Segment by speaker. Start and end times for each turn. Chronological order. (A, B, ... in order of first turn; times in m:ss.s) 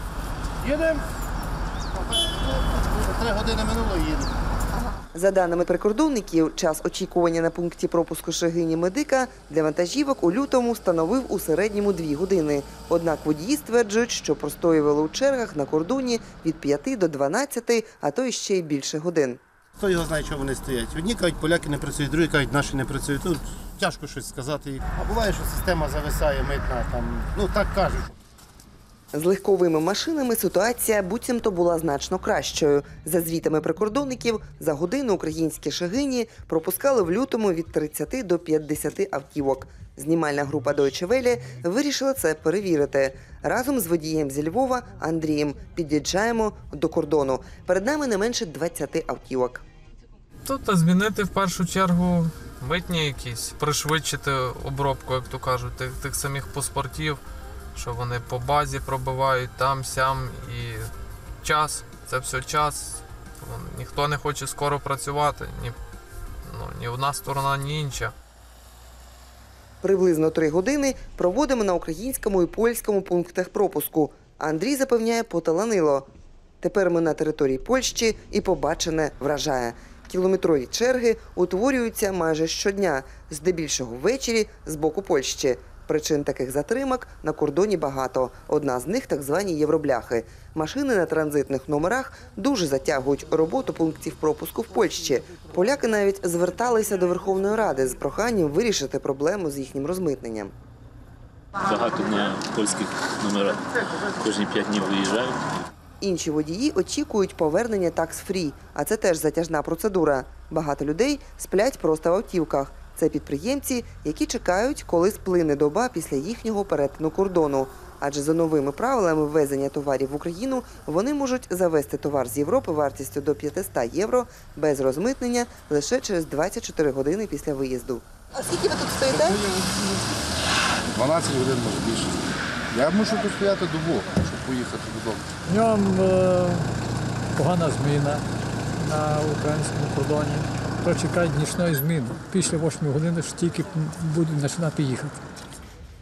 0:00.6-0:01.0 A
0:02.0-0:04.4 A
0:05.1-0:19.4 B
0:19.8-0:28.2 A
0:29.1-0:49.6 B
0:50.4-0:57.2 C
0:57.8-1:00.9 C
1:01.4-1:05.8 C
1:06.5-1:08.1 C
1:09.8-1:16.0 B
1:16.6-1:40.5 B
1:41.6-1:45.4 D
1:46.0-2:09.8 B
2:10.9-2:15.2 E
2:15.4-2:16.7 F
2:17.3-2:18.2 F
2:18.8-2:25.2 F